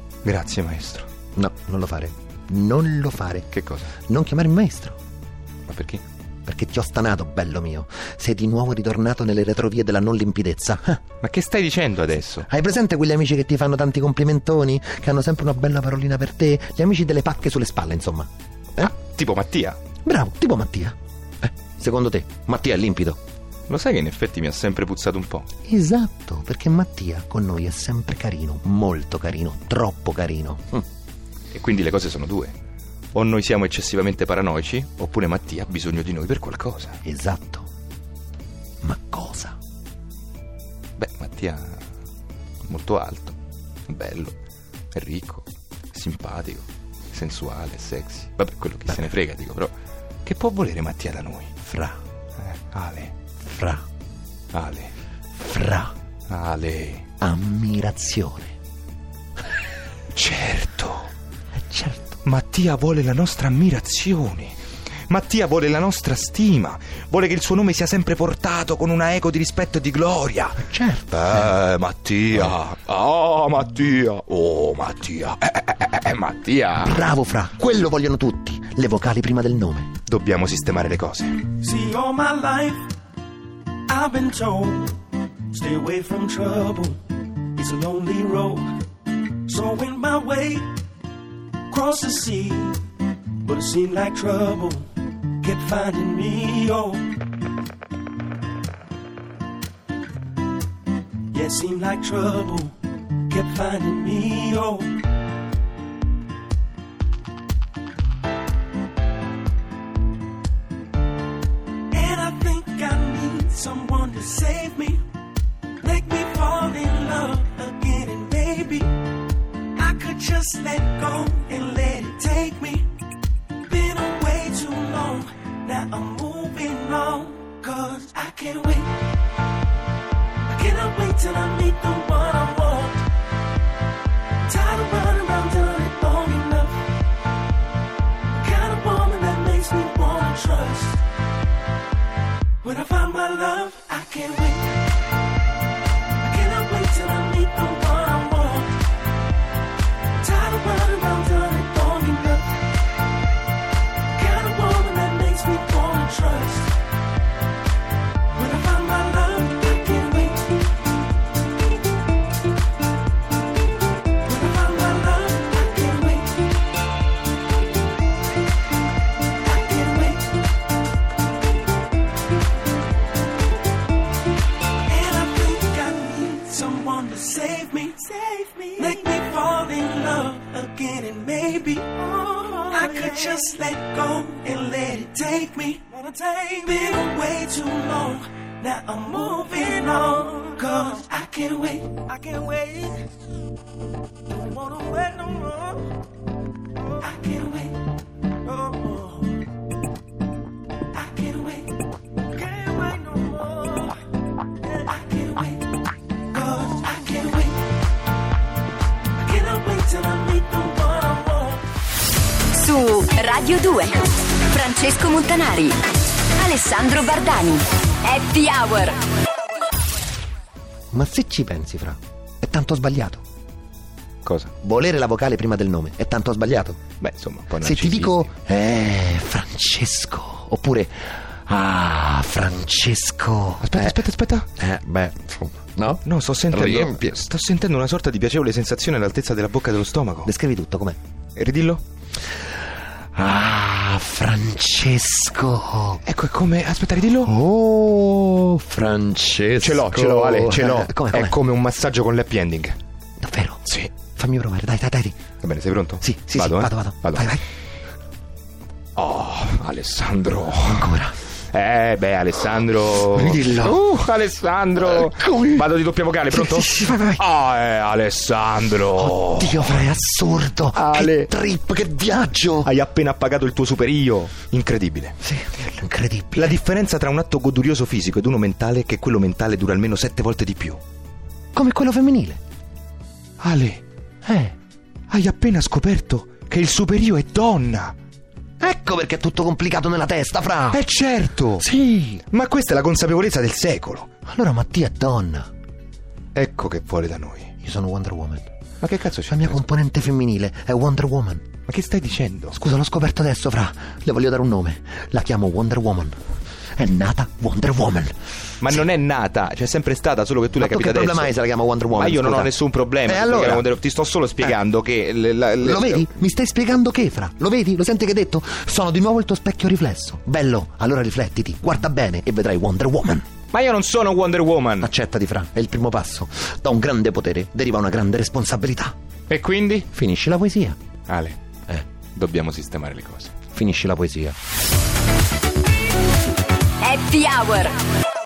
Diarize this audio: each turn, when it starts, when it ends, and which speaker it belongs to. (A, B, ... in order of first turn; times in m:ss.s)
0:00.2-0:01.1 A
0:01.3-0:05.0 B
0:03.5-0:03.9 A
0:05.7-0:06.0 A
0:06.4-0:11.0 B
0:11.2-0:12.5 A
0:12.5-0:18.9 B
0:18.8-0:19.8 A
0:20.0-0:23.2 B
0:23.7-0:25.5 A
0:25.6-0:30.8 B
0:31.5-0:32.6 A
0:33.1-0:37.0 A
0:37.0-0:37.7 B
0:38.8-0:39.6 B
0:41.0-0:41.8 A
0:42.6-0:43.4 A
0:43.9-0:44.3 A
0:44.9-0:49.7 A
0:50.2-0:51.5 A
0:51.6-0:52.0 B
0:52.4-0:53.1 A
0:53.4-0:53.8 B
0:54.5-0:54.9 A
0:55.4-0:55.9 B
0:56.3-0:57.0 A
0:57.2-0:58.5 B
1:00.1-1:01.1 A
1:01.5-1:02.2 B
1:02.2-1:04.6 A
1:05.1-1:17.0 A
1:10.6-1:11.3 B
1:16.8-1:19.9 B
1:20.0-1:21.5 A
1:21.5-1:22.8 C
1:23.9-1:25.0 C
1:25.5-1:27.0 C
1:27.5-1:28.8 C
1:29.4-1:30.7 C
1:31.7-1:32.8 C
1:33.4-1:34.9 C
1:35.4-1:37.1 C
1:41.3-1:42.7 C
1:43.3-1:45.0 C
1:51.9-1:55.0 C
1:55.8-1:59.0 C
1:59.8-2:02.9 C
2:03.6-2:09.0 C
2:10.5-2:13.1 C
2:14.4-2:16.8 C
2:18.3-2:21.0 C
2:22.6-2:24.8 C
2:26.2-2:28.8 C
2:30.2-2:32.6 C
2:34.1-2:36.8 C
2:38.3-2:40.6 C
2:44.2-2:46.4 C
2:49.4-2:50.4 C
2:54.8-3:13.1 C
3:14.3-3:15.9 C
3:17.0-3:17.9 C
3:18.5-3:19.4 C
3:20.9-3:21.8 C
3:22.3-3:23.9 C
3:24.6-3:27.7 C
3:29.2-3:31.6 C
3:32.5-3:35.8 D
3:36.4-3:39.0 D
3:40.9-3:43.2 B
3:44.2-3:44.5 A
3:44.6-3:46.8 B
3:47.0-3:48.3 A
3:47.6-3:54.0 B
3:53.6-3:54.5 A
3:54.6-3:57.2 B
3:56.0-4:00.3 A
4:00.2-4:01.0 B
4:01.4-4:01.8 A
4:03.1-4:06.0 B
4:06.0-4:07.3 A
4:07.2-4:11.4 B
4:09.6-4:12.8 A
4:13.2-4:15.2 B
4:13.6-4:13.9 A
4:15.4-4:17.3 A
4:16.0-4:17.4 B
4:19.0-4:20.9 A
4:20.6-4:21.2 B
4:21.5-4:29.9 A
4:23.1-4:23.8 B
4:24.8-4:25.7 B
4:26.3-4:27.2 B
4:29.0-4:32.7 B
4:30.7-4:31.3 A
4:32.6-4:35.2 A
4:35.2-4:36.6 B
4:36.3-4:40.8 A
4:41.5-4:42.4 B
4:43.4-4:43.8 A
4:44.2-4:44.6 B
4:45.1-4:48.0 A
4:48.6-4:50.8 B
4:50.7-4:51.6 A
4:51.6-4:52.2 B
4:52.3-4:54.1 A
4:54.2-4:55.5 B
4:56.3-4:57.5 A
4:57.6-4:58.5 B
4:58.8-4:59.6 A
4:59.3-5:01.5 B
5:01.7-5:02.6 A
5:02.5-5:06.2 B
5:06.8-5:08.1 B
5:08.6-5:11.4 A
5:10.5-5:13.7 B
5:11.9-5:16.1 A
5:15.6-5:23.3 B
5:23.5-5:24.9 A
5:24.8-5:28.9 B
5:29.3-5:29.9 A
5:29.9-5:30.8 B
5:31.1-5:31.4 A
5:32.1-5:33.3 A
5:33.5-5:34.4 B
5:36.8-5:37.8 D